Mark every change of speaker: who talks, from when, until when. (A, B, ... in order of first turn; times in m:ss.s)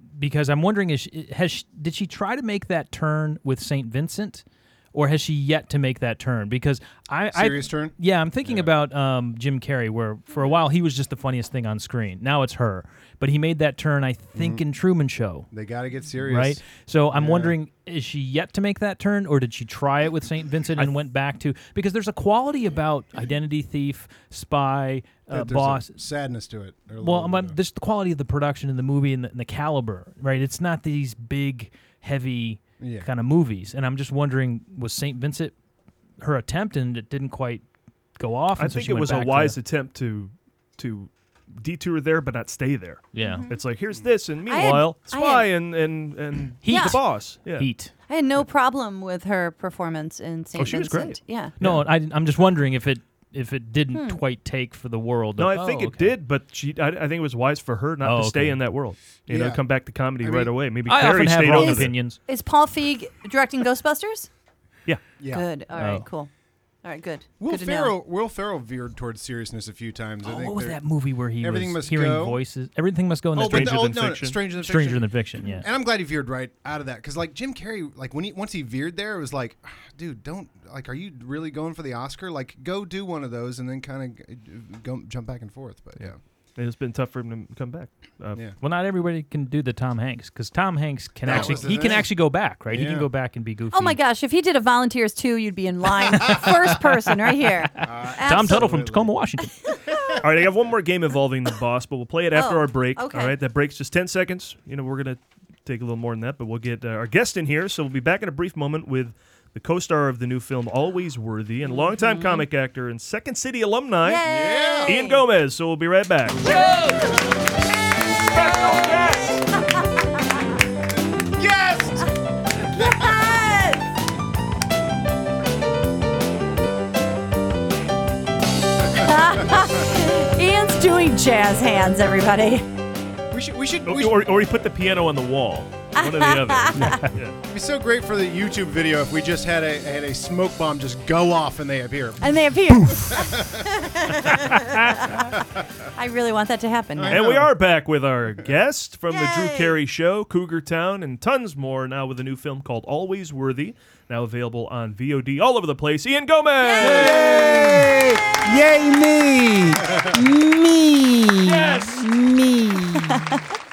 0:00.2-0:15.5 A
0:07.3-0:07.9 B
0:08.4-0:08.7 B
0:14.3-0:14.6 B
0:15.5-0:16.6 B
0:16.2-0:26.0 A
0:17.1-0:17.6 B
0:25.3-0:27.6 B
0:27.0-0:35.5 A
0:32.8-0:33.0 B
0:36.2-0:37.6 A
0:38.2-0:39.6 A
0:38.6-0:47.6 C
0:43.1-0:43.5 A
0:43.2-0:43.6 D
0:44.5-0:45.5 D
0:46.6-0:47.9 A
0:46.7-0:47.0 D
0:48.1-0:51.5 D
0:50.6-0:51.8 C
0:51.6-0:56.2 A
0:53.9-0:54.2 D
0:55.4-1:01.9 C
0:58.0-0:58.6 A
0:59.3-0:59.6 B
1:00.2-1:00.5 B
1:00.9-1:02.2 A
1:01.6-1:04.3 D
1:05.2-1:05.4 B
1:05.3-1:06.3 D
1:05.7-1:06.0 A
1:06.8-1:07.9 D
1:07.4-1:10.8 B
1:10.2-1:13.9 A
1:11.4-1:12.4 B
1:13.3-1:14.4 C
1:13.3-1:26.2 B
1:14.5-1:15.7 A
1:26.6-1:28.4 C
1:28.6-1:34.0 A
1:31.2-1:32.1 B
1:31.3-1:31.5 C
1:32.7-1:33.1 B
1:33.7-1:38.7 D
1:37.8-1:39.1 B
1:38.2-1:39.6 A
1:39.7-1:40.1 D
1:40.2-1:54.2 C
1:42.3-1:43.3 D
1:51.6-1:52.4 D
1:54.0-1:55.2 D
1:54.2-1:55.0 B
1:54.8-1:56.5 C
2:01.3-2:02.1 B
2:02.7-2:03.9 D
2:02.7-2:03.2 B
2:08.9-2:12.6 D
2:13.3-2:14.3 B
2:13.8-2:17.4 C
2:16.0-2:17.1 D
2:17.5-2:22.4 B
2:22.2-2:25.4 D
2:22.8-2:23.1 E
2:23.1-2:24.4 B
2:26.0-2:27.2 D
2:27.0-2:27.5 B
2:27.1-2:37.3 C
2:29.1-2:29.8 D
2:36.6-2:37.6 D
2:36.8-2:43.3 E
2:41.4-2:42.0 C